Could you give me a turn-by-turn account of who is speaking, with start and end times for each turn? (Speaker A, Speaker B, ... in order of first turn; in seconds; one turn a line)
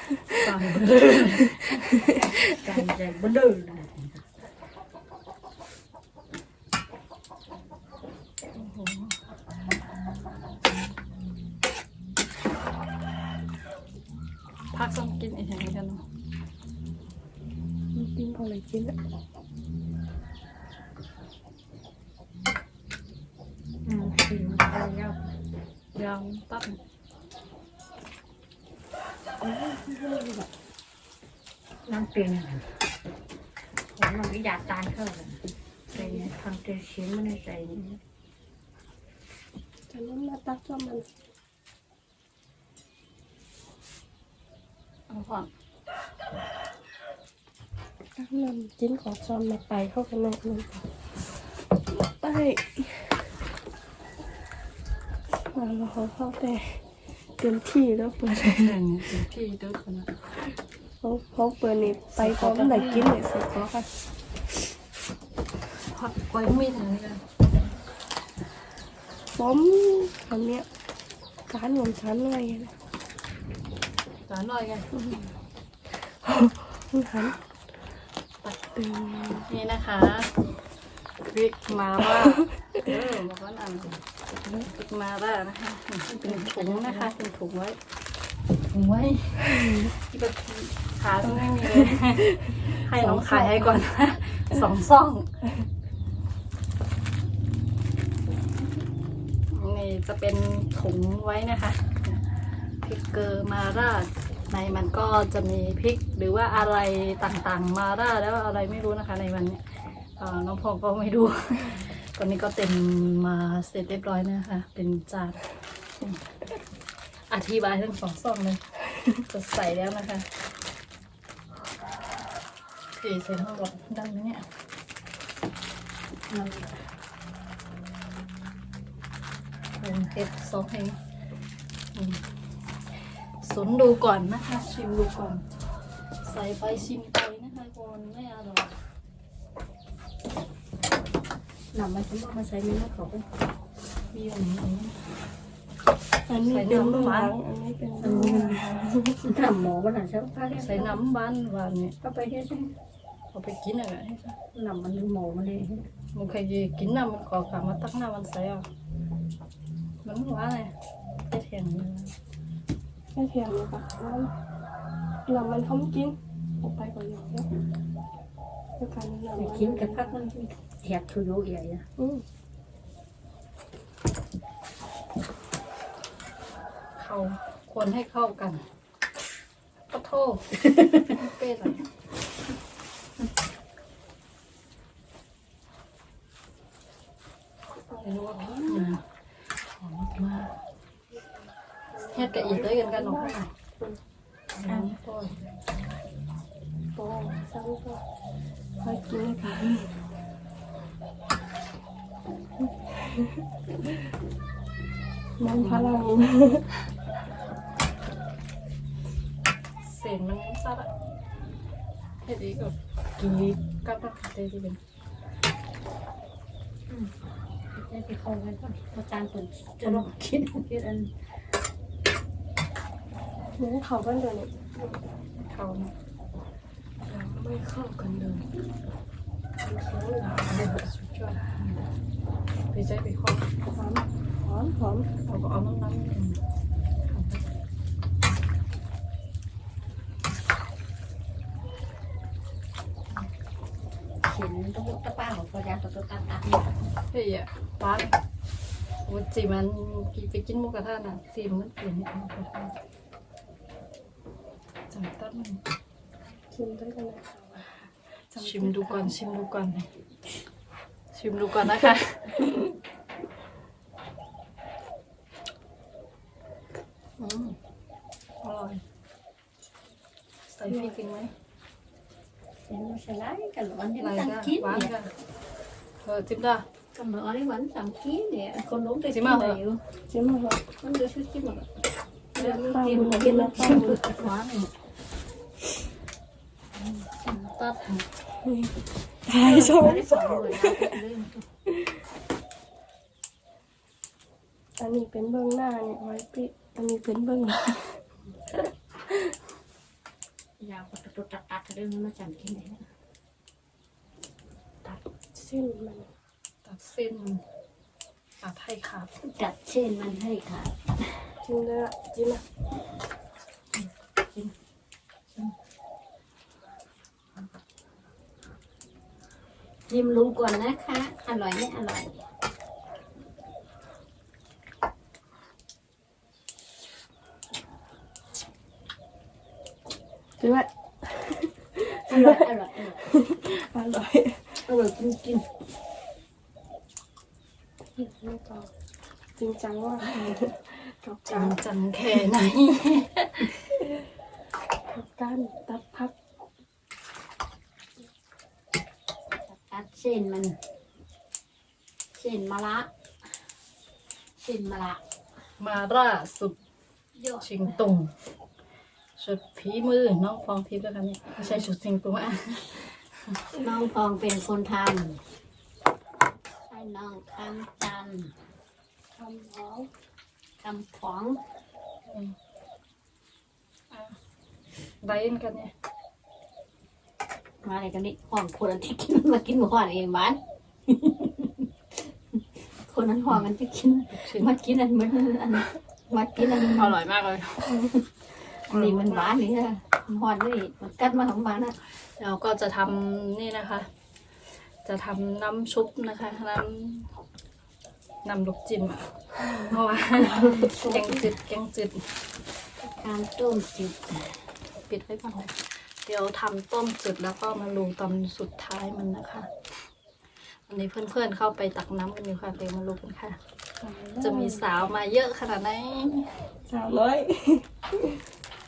Speaker A: 0.3-2.8
Speaker B: 2.5-4.3
Speaker A: 8.6-9.2
Speaker A: 14.7-16.0
Speaker C: 17.9-19.0
Speaker B: 23.9-25.3
Speaker A: 25.9-26.8
Speaker B: 29.4-30.4
Speaker B: 31.9-32.7
Speaker B: 34.0-38.0
Speaker C: 39.9-41.1
Speaker A: 45.1-45.5
Speaker C: 48.2-50.7
Speaker C: 52.0-53.1
Speaker C: 55.5-56.8
Speaker C: 57.4-58.8
Speaker A: 58.4-60.2
Speaker C: 61.0-63.9
Speaker A: 62.2-63.2
Speaker A: 65.9-67.2
Speaker C: 69.3-70.7
Speaker C: 71.5-72.7
Speaker A: 74.3-74.9
Speaker C: 74.9-75.2
Speaker C: 76.2-77.4
Speaker C: 78.5-79.5
Speaker A: 79.5-80.3
Speaker A: 81.2-84.0
Speaker C: 82.4-82.8
Speaker A: 84.7-87.8
Speaker B: 86.1-87.1
Speaker A: 88.7-95.3
Speaker C: 89.5-89.9
Speaker C: 91.3-93.8
Speaker A: 99.5-102.2
Speaker A: 102.8-109.6
Speaker A: 110.2-115.4
Speaker A: 116.0-116.6
Speaker A: 117.3-120.3
Speaker A: 123.0-124.5
Speaker B: 126.3-126.8
Speaker A: 129.8-131.0
Speaker A: 131.9-132.2
Speaker A: 133.4-135.4
Speaker A: 136.2-138.7
Speaker B: 141.7-143.3
Speaker A: 144.1-144.9
Speaker C: 146.3-149.2
Speaker A: 146.4-147.4
Speaker B: 148.0-148.6
Speaker B: 149.2-151.0
Speaker A: 150.6-152.0
Speaker B: 152.0-152.8
Speaker A: 153.3-154.4
Speaker B: 154.5-155.9
Speaker A: 156.2-158.6
Speaker A: 160.0-160.7
Speaker A: 161.3-162.1
Speaker C: 163.2-164.3
Speaker C: 165.3-167.5
Speaker C: 168.8-170.1
Speaker B: 169.4-171.8
Speaker C: 172.0-172.2
Speaker A: 177.0-178.6
Speaker A: 179.9-181.8
Speaker C: 187.9-188.8
Speaker A: 188.0-189.0
Speaker A: 189.8-190.5
Speaker C: 191.9-194.0
Speaker A: 192.1-193.5
Speaker A: 194.6-195.4
Speaker C: 197.0-198.0
Speaker C: 198.8-199.9
Speaker C: 202.8-203.9
Speaker C: 205.4-206.7
Speaker A: 209.8-210.9
Speaker A: 212.2-214.8
Speaker B: 217.7-221.1
Speaker C: 223.6-224.7
Speaker A: 225.4-225.9
Speaker C: 227.1-228.5
Speaker C: 229.6-230.7
Speaker A: 230.5-231.8
Speaker A: 232.7-233.5
Speaker C: 233.7-235.1
Speaker A: 235.3-236.4
Speaker A: 237.1-237.4
Speaker B: 244.2-246.7
Speaker A: 247.1-248.2
Speaker A: 249.1-252.8
Speaker A: 254.9-255.6
Speaker C: 256.5-257.7
Speaker C: 258.3-259.1
Speaker A: 258.4-259.9
Speaker A: 261.1-262.5
Speaker A: 267.2-267.6
Speaker A: 268.4-268.8
Speaker A: 270.5-271.3
Speaker B: 272.7-274.9
Speaker A: 274.0-275.1
Speaker A: 276.0-276.6
Speaker B: 276.9-279.8
Speaker A: 279.1-279.6
Speaker C: 280.1-280.6
Speaker B: 280.8-281.7
Speaker B: 282.4-284.3
Speaker A: 282.4-284.7
Speaker C: 282.4-284.0
Speaker A: 286.8-288.1
Speaker C: 288.4-288.7
Speaker C: 289.3-291.0
Speaker B: 289.4-291.4
Speaker C: 291.7-291.9
Speaker C: 294.8-298.0
Speaker B: 300.6-302.8
Speaker C: 304.9-306.1
Speaker A: 306.6-307.4
Speaker A: 308.4-309.1
Speaker B: 309.2-311.3
Speaker C: 311.4-312.4
Speaker A: 313.8-314.5
Speaker B: 319.9-322.2
Speaker C: 330.4-334.6
Speaker B: 332.1-333.0
Speaker B: 334.7-335.5
Speaker C: 338.0-338.7
Speaker C: 339.4-341.6
Speaker A: 341.3-343.6
Speaker C: 343.8-344.0
Speaker C: 344.9-346.1
Speaker B: 349.4-350.6
Speaker B: 352.1-352.9
Speaker B: 354.4-355.0
Speaker A: 355.6-356.6
Speaker B: 357.2-357.9
Speaker A: 357.4-358.1
Speaker A: 359.2-363.4
Speaker B: 363.6-365.2
Speaker B: 366.6-368.3
Speaker C: 369.2-369.9
Speaker B: 370.6-371.4
Speaker A: 372.1-372.4
Speaker A: 373.9-374.2
Speaker A: 375.0-375.7
Speaker B: 377.6-381.7
Speaker B: 382.4-387.0
Speaker A: 384.1-384.5
Speaker A: 386.5-387.9
Speaker A: 388.7-389.4
Speaker B: 388.7-391.8
Speaker A: 392.2-393.9
Speaker A: 394.9-397.1
Speaker A: 398.2-399.1
Speaker B: 399.4-401.2
Speaker A: 399.6-402.1
Speaker B: 402.9-404.4
Speaker A: 404.9-409.5
Speaker A: 410.7-413.4
Speaker C: 413.8-414.6
Speaker A: 414.2-416.4
Speaker C: 416.7-418.2